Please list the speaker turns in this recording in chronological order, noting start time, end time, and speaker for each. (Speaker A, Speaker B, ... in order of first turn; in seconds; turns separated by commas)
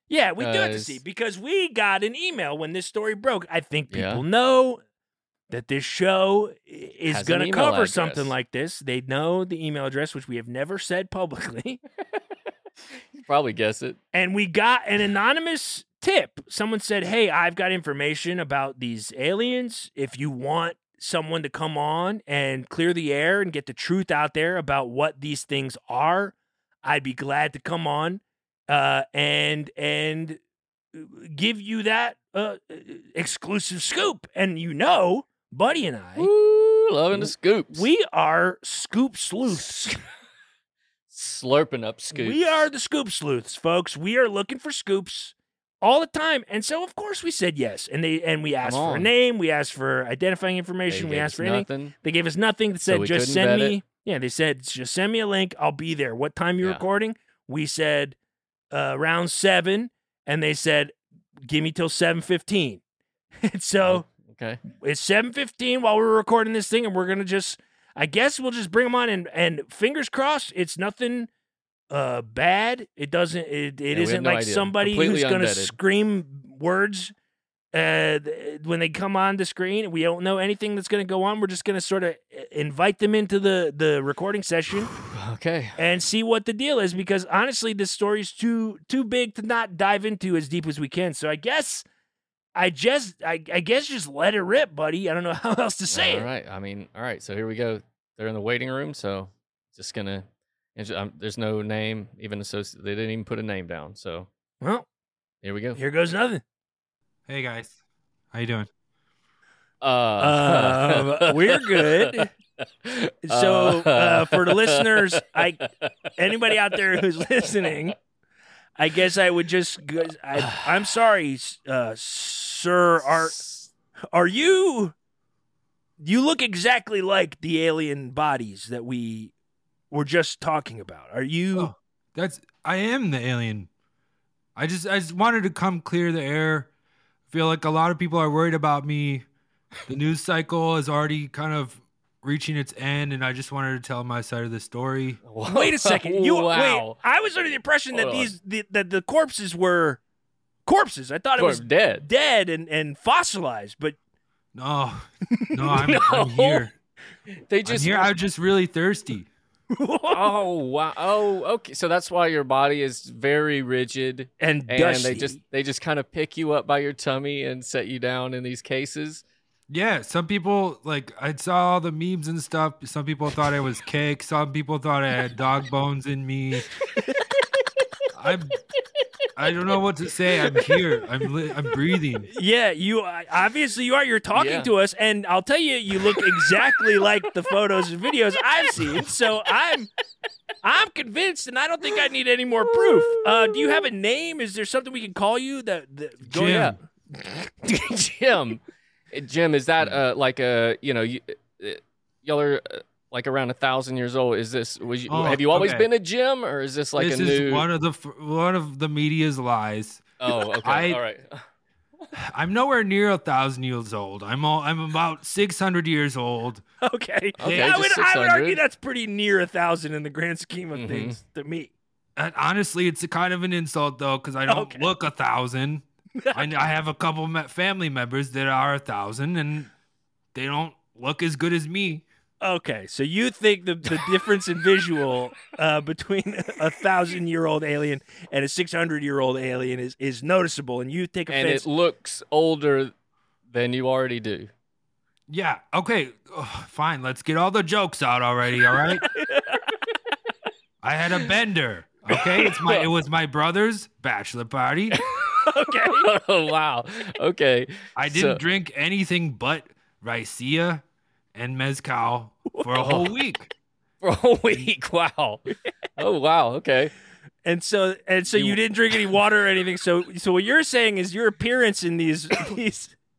Speaker A: 0.1-4.8, Speaker B: 0.4-1.0, Speaker B: 3.9-4.2, Speaker A: 5.5-11.8, Speaker B: 7.1-8.3, Speaker B: 13.2-14.0, Speaker A: 14.1-30.4, Speaker A: 30.9-36.3, Speaker B: 36.2-37.9, Speaker A: 37.1-40.0, Speaker B: 39.5-40.0, Speaker B: 41.1-42.6, Speaker A: 42.1-58.2, Speaker B: 48.6-49.1, Speaker B: 50.9-51.9, Speaker B: 52.9-53.8, Speaker A: 58.7-60.9, Speaker A: 61.5-62.8, Speaker A: 63.4-64.0, Speaker B: 63.8-64.6, Speaker A: 64.7-71.3, Speaker A: 71.9-77.1, Speaker B: 73.9-75.7, Speaker A: 77.7-85.0, Speaker B: 85.0-85.8, Speaker A: 85.8-91.8, Speaker A: 92.5-96.3, Speaker B: 95.9-104.3, Speaker A: 104.6-104.9, Speaker B: 105.4-105.8, Speaker A: 105.8-106.4, Speaker C: 107.3-107.8, Speaker C: 108.3-108.7, Speaker B: 109.8-112.2, Speaker A: 110.2-112.3, Speaker B: 112.8-117.9, Speaker A: 113.3-115.6, Speaker A: 116.2-118.0, Speaker A: 118.8-123.4, Speaker B: 120.4-120.8, Speaker B: 123.0-123.7, Speaker A: 124.1-124.9, Speaker A: 126.0-129.3, Speaker A: 129.9-131.7, Speaker C: 131.5-133.7, Speaker C: 134.6-136.7, Speaker C: 137.3-139.3, Speaker C: 139.9-145.2, Speaker B: 145.3-147.0, Speaker A: 145.5-150.0, Speaker B: 147.9-148.3, Speaker A: 150.7-154.0, Speaker B: 151.4-152.1, Speaker C: 154.6-156.7, Speaker A: 155.4-155.7, Speaker B: 155.7-156.7, Speaker B: 157.5-158.1, Speaker C: 157.7-159.3, Speaker A: 159.7-160.3, Speaker B: 160.1-169.2, Speaker A: 164.4-165.4, Speaker C: 169.7-176.7, Speaker A: 177.0-177.2, Speaker C: 178.2-178.6, Speaker C: 179.4-182.3, Speaker A: 182.3-189.9, Speaker B: 184.3-184.7, Speaker B: 186.1-187.0, Speaker B: 188.6-189.0, Speaker A: 190.6-197.5, Speaker B: 192.6-193.9, Speaker C: 196.3-196.8, Speaker B: 196.4-196.8, Speaker B: 197.7-198.6, Speaker B: 199.1-207.7, Speaker C: 205.1-205.9, Speaker C: 207.0-211.0, Speaker B: 210.2-211.4, Speaker C: 212.2-216.6, Speaker A: 216.8-221.7, Speaker B: 217.4-218.6, Speaker C: 217.4-217.8, Speaker B: 220.8-221.2, Speaker C: 222.2-229.7, Speaker A: 224.5-224.9, Speaker A: 226.2-226.4, Speaker C: 230.3-232.1, Speaker A: 232.4-241.7, Speaker B: 241.3-242.9, Speaker B: 243.5-244.5, Speaker C: 245.3-249.1, Speaker A: 249.2-249.6, Speaker C: 250.8-255.0, Speaker B: 252.1-252.9, Speaker B: 254.9-258.4, Speaker A: 255.4-256.1, Speaker C: 258.0-260.8, Speaker C: 261.3-263.5, Speaker B: 262.8-263.1, Speaker B: 264.0-266.9, Speaker A: 267.4-273.0, Speaker B: 268.3-268.6